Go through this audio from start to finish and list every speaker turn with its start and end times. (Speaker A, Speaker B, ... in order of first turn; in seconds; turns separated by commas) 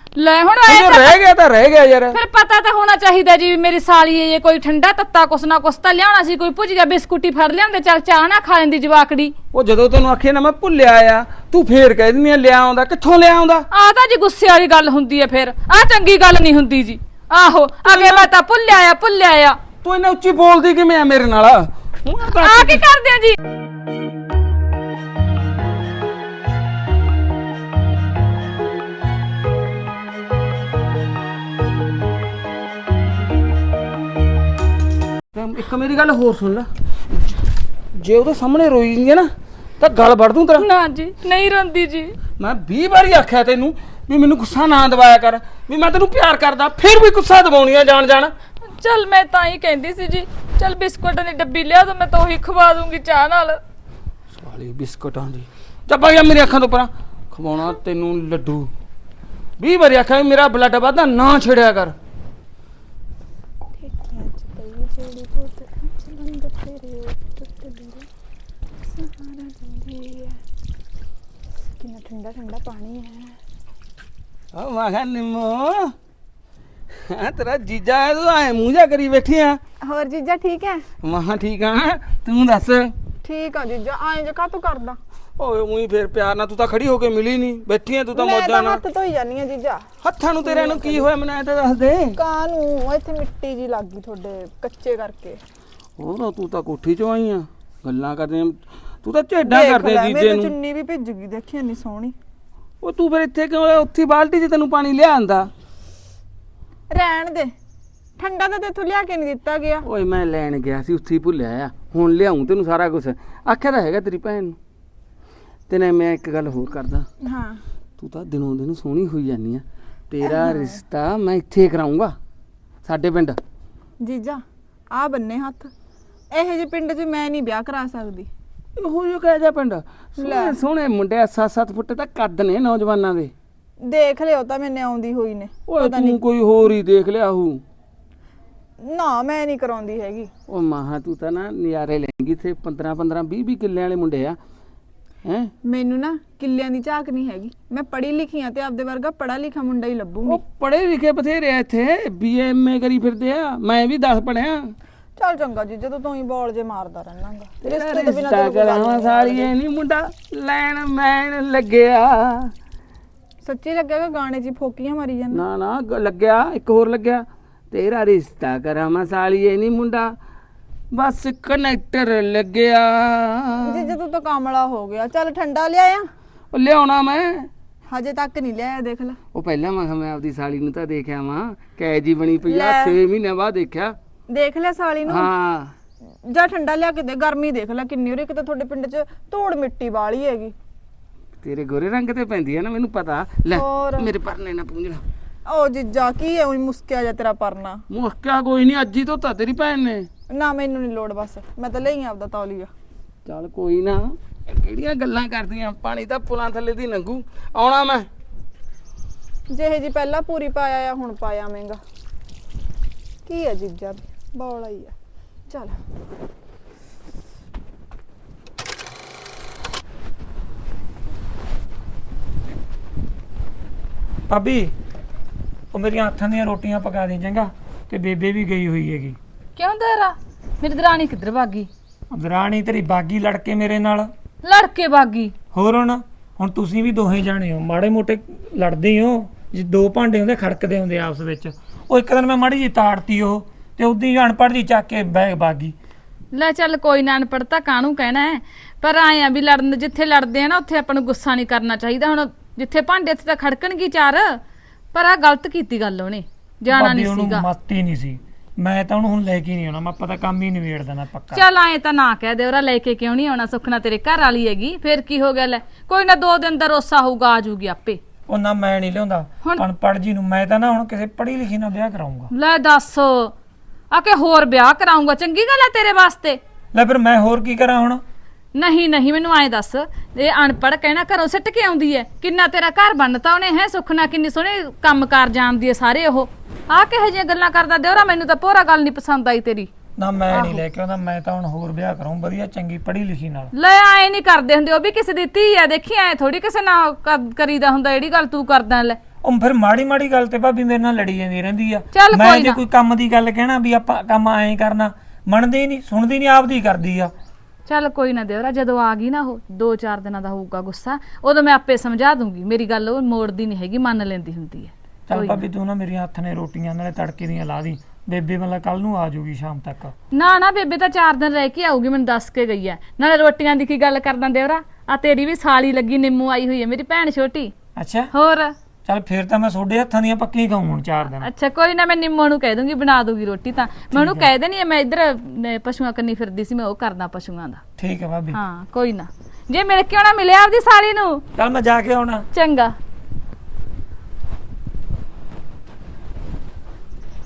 Speaker A: 0.2-1.2, Speaker B: 0.7-2.2, Speaker A: 2.1-9.3, Speaker B: 9.5-13.7, Speaker A: 13.7-19.6, Speaker B: 17.9-18.3, Speaker B: 19.8-22.8, Speaker A: 22.4-23.4, Speaker B: 35.3-37.4, Speaker B: 38.0-40.6, Speaker A: 40.6-42.1, Speaker B: 42.4-48.3, Speaker A: 48.7-53.6, Speaker B: 54.3-58.7, Speaker B: 59.6-62.0, Speaker C: 63.8-68.1, Speaker C: 68.9-70.4, Speaker C: 71.8-73.4, Speaker B: 74.5-75.9, Speaker B: 77.1-79.6, Speaker C: 79.8-80.8, Speaker B: 81.0-82.9, Speaker C: 83.2-85.0, Speaker B: 85.4-88.8, Speaker C: 88.1-89.9, Speaker B: 90.0-92.2, Speaker C: 90.4-91.1, Speaker C: 92.1-95.4, Speaker B: 96.0-100.6, Speaker C: 99.4-102.2, Speaker B: 102.8-105.5, Speaker C: 106.9-107.5, Speaker C: 108.2-109.8, Speaker B: 109.8-114.6, Speaker B: 115.7-117.1, Speaker C: 117.2-117.6, Speaker B: 118.0-122.2, Speaker C: 120.2-120.8, Speaker B: 122.8-123.4, Speaker C: 124.0-125.7, Speaker C: 126.3-128.3, Speaker B: 128.8-133.3, Speaker C: 130.2-130.6, Speaker C: 133.8-136.2, Speaker B: 135.7-137.6, Speaker C: 138.8-140.3, Speaker B: 140.5-144.4, Speaker B: 145.2-145.5, Speaker C: 145.6-150.4, Speaker B: 150.3-154.8, Speaker C: 155.2-159.5, Speaker B: 157.6-162.5, Speaker C: 163.4-165.4, Speaker B: 165.3-170.1, Speaker B: 170.9-173.9, Speaker C: 173.7-176.1, Speaker B: 176.5-177.5, Speaker C: 177.9-179.2, Speaker B: 179.3-183.9, Speaker C: 182.4-183.0, Speaker C: 184.3-185.3, Speaker B: 185.1-185.7, Speaker C: 186.3-190.5, Speaker B: 191.4-195.0, Speaker C: 193.5-194.1, Speaker C: 195.5-197.8, Speaker B: 197.9-200.1, Speaker C: 200.3-202.7, Speaker B: 203.3-208.1, Speaker C: 209.5-211.8, Speaker C: 213.3-214.9, Speaker C: 215.5-215.8, Speaker D: 224.3-224.7, Speaker D: 225.7-229.2, Speaker A: 229.6-231.7, Speaker D: 232.1-234.1, Speaker A: 234.4-235.3, Speaker D: 235.5-245.8, Speaker A: 246.3-254.4, Speaker A: 254.9-257.5, Speaker D: 256.7-261.4, Speaker A: 261.3-268.0, Speaker D: 268.3-272.3, Speaker A: 272.3-273.3, Speaker A: 273.9-276.4, Speaker D: 276.7-278.0, Speaker A: 278.6-289.7, Speaker D: 290.0-293.5, Speaker A: 290.3-290.6, Speaker A: 293.5-299.0, Speaker D: 299.2-307.1, Speaker A: 301.9-302.6, Speaker A: 307.7-315.4, Speaker D: 315.1-319.9, Speaker A: 320.1-327.5, Speaker D: 327.8-328.1, Speaker A: 328.1-328.5, Speaker D: 328.9-331.3, Speaker A: 331.1-337.6, Speaker D: 333.9-334.3, Speaker D: 337.8-338.4, Speaker A: 338.3-341.2, Speaker D: 341.4-342.2, Speaker A: 342.3-342.8